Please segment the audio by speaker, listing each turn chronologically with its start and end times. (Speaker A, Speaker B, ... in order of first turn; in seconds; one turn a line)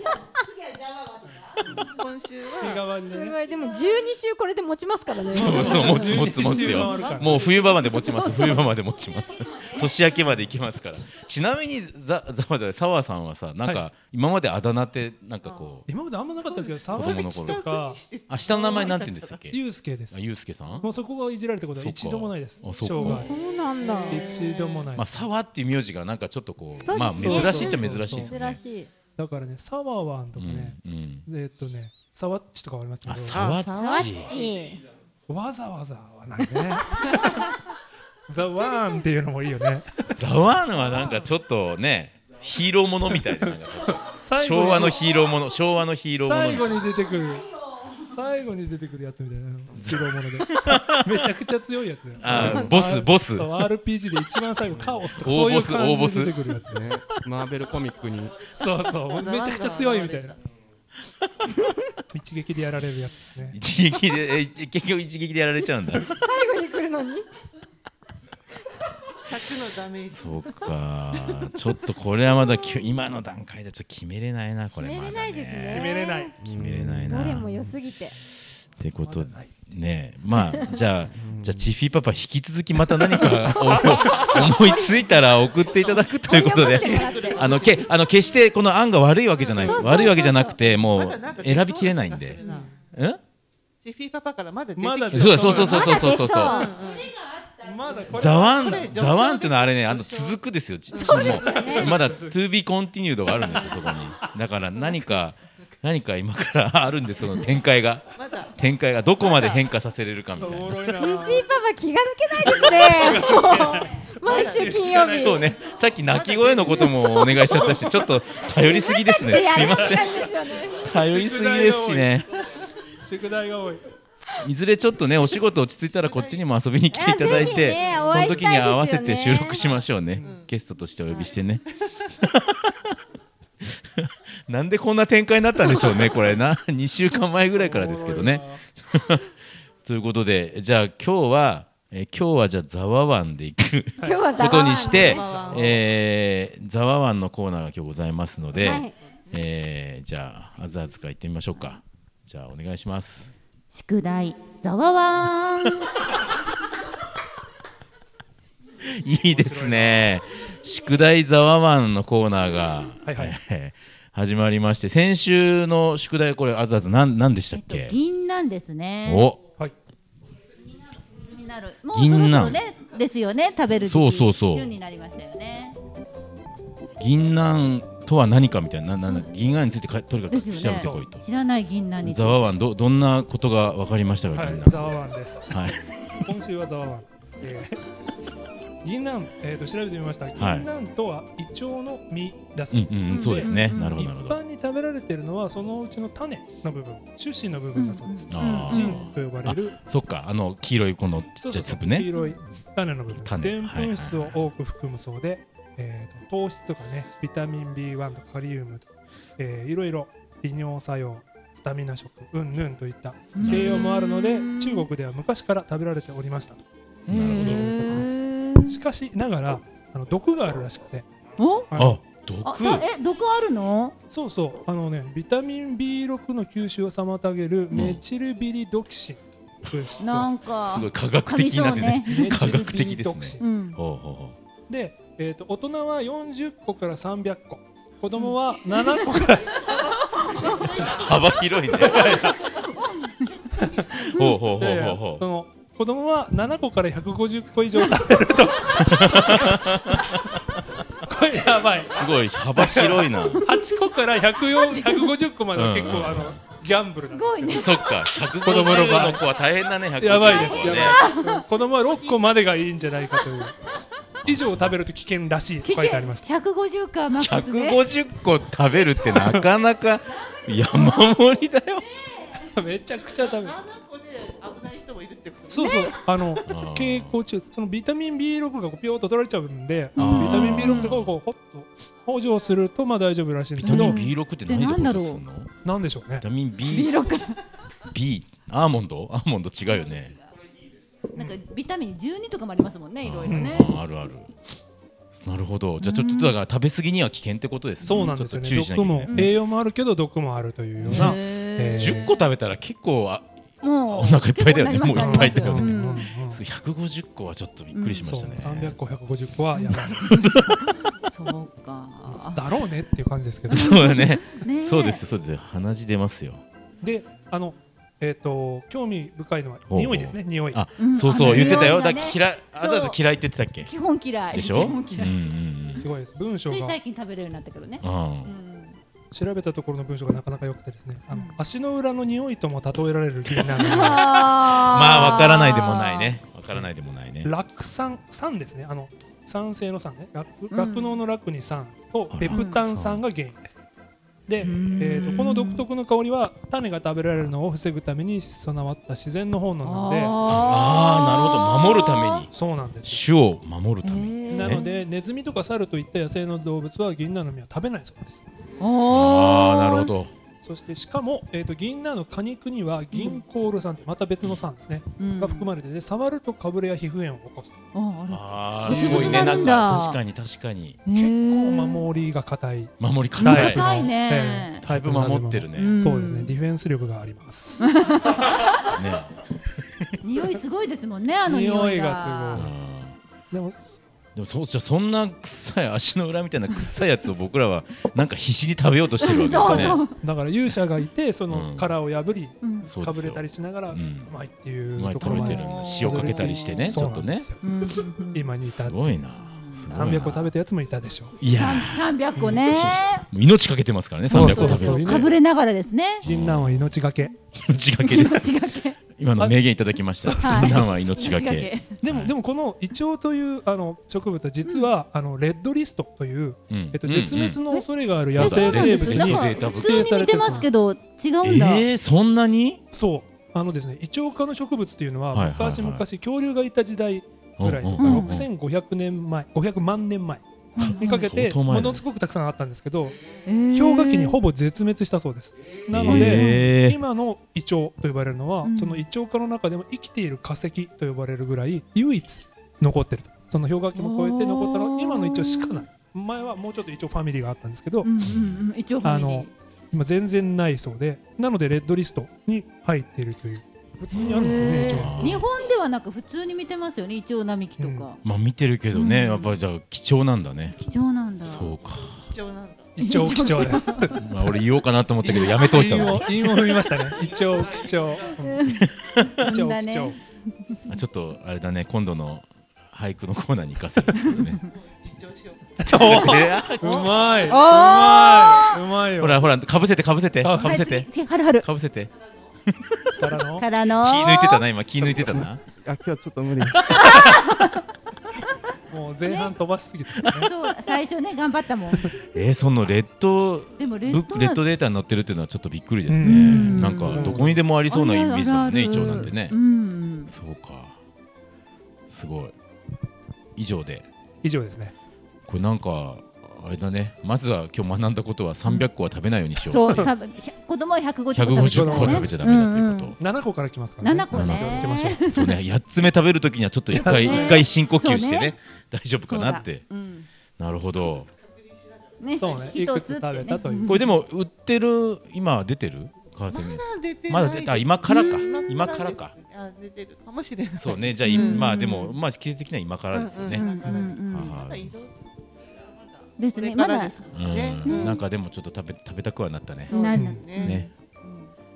Speaker A: 1.0-1.4
Speaker B: 1.6-2.9
Speaker C: 2.6-3.4
Speaker D: 3.1-6.1
Speaker E: 5.3-15.9
Speaker C: 5.3-7.6
Speaker B: 5.6-8.3
Speaker A: 8.1-8.7
Speaker A: 9.4-9.9
Speaker B: 15.4-19.4
Speaker C: 15.9-18.0
Speaker E: 16.9-17.6
Speaker E: 18.3-19.6
Speaker C: 19.5-20.2
Speaker E: 20.1-20.9
Speaker C: 20.8-23.3
Speaker E: 21.7-23.3
Speaker D: 23.0-24.2
Speaker B: 23.2-24.9
Speaker C: 24.1-25.2
Speaker E: 24.9-28.6
Speaker D: 26.8-28.9
Speaker C: 27.0-28.4
Speaker C: 29.2-33.5
Speaker E: 30.4-31.2
Speaker E: 33.1-34.4
Speaker B: 33.3-34.5
Speaker D: 33.7-34.8
Speaker C: 35.3-37.6
Speaker C: 38.3-40.1
Speaker E: 40.1-46.7
Speaker C: 43.1-45.1
Speaker C: 46.2-47.5
Speaker C: 48.1-56.9
Speaker E: 49.8-51.2
Speaker E: 52.2-53.6
Speaker F: 52.3-52.6
Speaker E: 55.2-56.4
Speaker F: 56.7-58.4
Speaker C: 58.5-60.4
Speaker B: 59.1-60.4
Speaker C: 62.1-63.6
Speaker E: 63.5-66.1
Speaker D: 66.1-67.2
Speaker B: 69.2-70.4
Speaker E: 70.1-75.9
Speaker D: 74.8-76.3
Speaker C: 75.7-76.4
Speaker F: 76.4-77.7
Speaker E: 76.5-77.5
Speaker D: 77.1-78.1
Speaker E: 78.8-92.4
Speaker C: 79.0-79.5
Speaker F: 81.1-81.7
Speaker D: 83.4-83.9
Speaker B: 83.5-88.0
Speaker D: 86.3-87.4
Speaker B: 89.4-92.7
Speaker D: 89.6-90.6
Speaker C: 92.4-92.7
Speaker E: 92.9-93.2
Speaker B: 93.8-97.1
Speaker C: 94.8-96.0
Speaker E: 95.1-96.6
Speaker D: 95.7-96.7
Speaker A: 96.9-98.0
Speaker C: 97.6-99.0
Speaker B: 97.9-100.4
Speaker E: 98.1-110.9
Speaker B: 100.9-101.9
Speaker D: 101.0-101.9
Speaker C: 101.1-102.4
Speaker B: 104.8-105.2
Speaker B: 108.1-108.5
Speaker B: 109.2-109.7
Speaker C: 110.4-111.5
Speaker D: 110.9-115.4
Speaker C: 112.4-115.5
Speaker B: 114.2-114.9
Speaker E: 114.9-120.2
Speaker B: 116.1-116.9
Speaker C: 116.3-118.0
Speaker D: 116.9-117.4
Speaker D: 118.6-120.8
Speaker C: 119.4-122.2
Speaker E: 120.8-122.2
Speaker C: 123.0-123.8
Speaker E: 124.4-131.6
Speaker B: 125.9-126.4
Speaker D: 126.9-129.6
Speaker B: 127.2-128.3
Speaker B: 130.2-130.5
Speaker E: 132.2-132.7
Speaker E: 133.6-139.3
Speaker C: 137.6-138.6
Speaker E: 139.8-153.3
Speaker C: 144.0-145.7
Speaker D: 144.0-145.2
Speaker B: 144.5-145.8
Speaker D: 148.6-148.9
Speaker B: 148.6-149.4
Speaker A: 153.7-155.9
Speaker E: 158.8-167.9
Speaker C: 159.2-160.1
Speaker C: 163.0-163.4
Speaker A: 167.5-169.2
Speaker E: 169.1-169.4
Speaker A: 171.1-175.8
Speaker E: 171.9-172.6
Speaker E: 173.8-174.7
Speaker E: 177.0-181.2
Speaker A: 180.3-182.4
Speaker C: 180.7-181.1
Speaker E: 182.0-184.9
Speaker C: 184.3-185.6
Speaker E: 185.5-185.8
Speaker C: 186.2-187.8
Speaker C: 188.8-199.8
Speaker E: 190.4-190.7
Speaker E: 192.7-194.4
Speaker A: 193.1-194.0
Speaker A: 197.7-199.1
Speaker E: 198.3-202.1
Speaker C: 201.4-216.6
Speaker E: 203.1-204.5
Speaker A: 213.3-214.9
Speaker E: 213.4-213.8
Speaker A: 217.1-218.8
Speaker E: 217.1-217.7
Speaker C: 217.3-218.1
Speaker C: 218.6-221.1
Speaker A: 221.4-221.7
Speaker C: 221.7-222.0
Speaker E: 221.7-222.8
Speaker A: 222.4-223.9
Speaker C: 224.1-230.3
Speaker E: 227.7-228.0
Speaker A: 230.0-232.5
Speaker E: 230.6-234.4
Speaker C: 232.1-233.4
Speaker A: 233.4-233.8
Speaker C: 234.7-239.6
Speaker A: 238.1-239.0
Speaker A: 240.3-240.7
Speaker E: 240.8-242.2
Speaker A: 241.8-243.3
Speaker C: 241.9-242.4
Speaker E: 243.9-245.2
Speaker C: 244.6-249.6
Speaker E: 248.8-250.2
Speaker C: 251.0-251.9
Speaker E: 251.9-253.4
Speaker C: 252.6-257.7
Speaker A: 253.3-253.6
Speaker A: 254.7-255.1
Speaker E: 255.5-256.4
Speaker A: 257.1-258.9
Speaker E: 257.5-261.0
Speaker C: 258.4-259.3
Speaker C: 260.0-263.6
Speaker A: 260.4-261.4
Speaker E: 264.2-264.8
Speaker C: 264.2-266.2
Speaker A: 265.6-267.8
Speaker E: 267.2-271.9
Speaker C: 269.2-269.4
Speaker A: 270.7-271.2
Speaker A: 271.9-272.4
Speaker C: 272.5-273.6
Speaker B: 273.1-275.9
Speaker C: 275.5-284.0
Speaker A: 275.6-275.9
Speaker E: 276.4-277.1
Speaker A: 279.9-281.0
Speaker E: 280.0-281.1
Speaker E: 283.6-285.5
Speaker A: 283.6-285.2
Speaker C: 285.6-286.2
Speaker E: 286.2-287.0
Speaker A: 286.6-287.4
Speaker E: 287.9-290.1
Speaker C: 291.1-291.4
Speaker A: 291.1-293.8
Speaker E: 293.0-294.3
Speaker C: 293.3-293.7
Speaker E: 295.1-299.3
Speaker A: 295.8-296.4
Speaker C: 297.8-302.1
Speaker A: 297.9-298.1
Speaker A: 299.1-299.4
Speaker E: 300.8-301.1
Speaker A: 300.9-302.2
Speaker E: 301.8-303.3
Speaker A: 303.6-306.1
Speaker E: 303.9-305.7
Speaker C: 304.9-306.4
Speaker E: 306.3-308.8
Speaker A: 307.7-308.1
Speaker C: 308.0-310.4
Speaker A: 309.5-312.5
Speaker C: 312.1-313.7
Speaker A: 313.5-315.0
Speaker E: 313.5-316.4
Speaker C: 316.8-320.6
Speaker E: 319.7-323.7
Speaker A: 320.8-323.0
Speaker C: 321.2-321.8
Speaker A: 323.6-325.2
Speaker E: 324.3-325.9
Speaker C: 325.8-326.8
Speaker A: 326.4-328.8
Speaker E: 327.8-328.3
Speaker C: 329.1-334.2
Speaker A: 331.1-331.4
Speaker A: 333.5-336.1
Speaker E: 334.3-337.3
Speaker C: 337.2-343.6
Speaker A: 340.5-341.0
Speaker E: 342.1-343.0
Speaker A: 342.3-342.6
Speaker C: 344.3-350.2
Speaker A: 344.4-345.6
Speaker A: 349.6-352.3
Speaker E: 350.2-352.3
Speaker C: 352.3-353.0
Speaker E: 352.8-354.6
Speaker A: 353.8-354.8
Speaker C: 354.3-358.2
Speaker A: 358.6-359.9
Speaker E: 358.9-360.1
Speaker C: 360.4-367.6
Speaker A: 362.9-363.2
Speaker A: 365.0-365.5
Speaker A: 367.7-370.0
Speaker E: 368.1-370.8
Speaker C: 368.7-369.6
Speaker A: 370.9-371.9
Speaker C: 370.9-377.6
Speaker E: 372.8-373.7
Speaker A: 373.2-374.6
Speaker E: 374.6-375.8
Speaker A: 375.6-376.4
Speaker A: 377.6-378.4
Speaker E: 378.7-379.1
Speaker A: 380.0-382.5
Speaker C: 381.2-382.5
Speaker E: 382.3-383.0
Speaker C: 383.3-383.8
Speaker E: 384.1-389.9
Speaker A: 389.0-390.0
Speaker C: 389.4-398.9
Speaker E: 391.3-391.8
Speaker A: 392.4-392.7
Speaker E: 392.7-394.1
Speaker E: 394.7-397.2
Speaker A: 395.0-396.9
Speaker A: 397.4-398.4
Speaker E: 398.4-400.3
Speaker A: 399.1-400.1
Speaker C: 399.7-401.1
Speaker E: 401.2-405.1
Speaker A: 401.3-403.1
Speaker C: 402.1-402.4
Speaker C: 404.0-405.1
Speaker A: 404.1-406.1
Speaker E: 406.0-406.7
Speaker C: 406.0-407.1
Speaker E: 407.4-408.3
Speaker A: 407.8-408.8
Speaker E: 409.0-412.1
Speaker C: 410.0-410.9
Speaker A: 410.2-411.8
Speaker C: 411.8-420.5
Speaker A: 414.4-414.7
Speaker E: 416.5-417.4
Speaker A: 417.5-421.6
Speaker E: 418.1-420.1
Speaker E: 421.2-422.6
Speaker C: 422.7-430.2
Speaker E: 425.1-425.9
Speaker E: 427.4-428.3
Speaker A: 427.8-428.2
Speaker A: 430.6-431.1
Speaker E: 430.6-431.8
Speaker C: 430.8-432.9
Speaker A: 433.2-434.2
Speaker C: 433.5-447.9
Speaker E: 435.7-436.8
Speaker A: 435.8-436.5
Speaker A: 438.4-438.9
Speaker A: 443.7-445.6
Speaker A: 447.8-449.3
Speaker C: 448.8-455.1
Speaker E: 453.9-455.2
Speaker A: 454.0-458.0
Speaker C: 457.6-457.9
Speaker E: 458.0-460.6
Speaker A: 458.7-459.4
Speaker A: 460.5-461.5
Speaker E: 461.2-462.0
Speaker B: 462.1-462.8
Speaker C: 462.8-464.0
Speaker A: 462.8-463.9
Speaker E: 464.0-466.1
Speaker C: 465.0-468.4
Speaker A: 465.1-466.0
Speaker A: 468.2-468.7
Speaker E: 468.8-469.2
Speaker A: 469.2-470.6
Speaker C: 469.2-469.9
Speaker E: 470.7-474.4
Speaker A: 474.0-474.4
Speaker B: 474.5-476.9
Speaker E: 475.6-477.0
Speaker C: 475.6-479.2
Speaker A: 476.6-478.5
Speaker E: 479.0-480.9
Speaker C: 480.2-480.6
Speaker A: 480.4-481.5
Speaker E: 481.4-481.9
Speaker E: 482.5-483.1
Speaker C: 483.0-483.5
Speaker A: 483.4-484.4
Speaker E: 483.8-485.4
Speaker F: 485.1-486.6
Speaker C: 486.6-487.3
Speaker A: 486.7-487.6
Speaker C: 488.7-490.3
Speaker A: 489.1-489.4
Speaker A: 490.1-491.9
Speaker E: 492.1-499.4
Speaker A: 493.6-494.4
Speaker C: 495.9-497.4
Speaker A: 496.0-500.1
Speaker C: 498.7-499.0
Speaker E: 500.1-500.8
Speaker E: 501.9-502.3
Speaker E: 503.4-503.9
Speaker C: 504.2-504.7
Speaker E: 505.3-509.9
Speaker A: 509.4-513.0
Speaker E: 511.1-513.0
Speaker C: 511.4-512.1
Speaker C: 513.0-515.0
Speaker A: 513.8-515.4
Speaker E: 514.1-519.6
Speaker C: 516.7-517.4
Speaker A: 516.7-518.4
Speaker A: 519.1-520.1
Speaker E: 520.4-521.1
Speaker A: 522.0-523.8
Speaker C: 522.2-523.8
Speaker E: 523.7-529.1
Speaker B: 526.3-531.5
Speaker A: 527.9-528.7
Speaker E: 530.6-533.5
Speaker A: 531.1-532.0
Speaker B: 532.9-535.1
Speaker A: 533.3-534.4
Speaker E: 534.0-534.7
Speaker B: 535.8-538.0
Speaker A: 536.2-536.9
Speaker E: 537.1-539.8
Speaker A: 537.6-538.0
Speaker B: 539.7-541.3
Speaker A: 539.7-540.6
Speaker C: 539.9-540.3
Speaker E: 540.4-540.7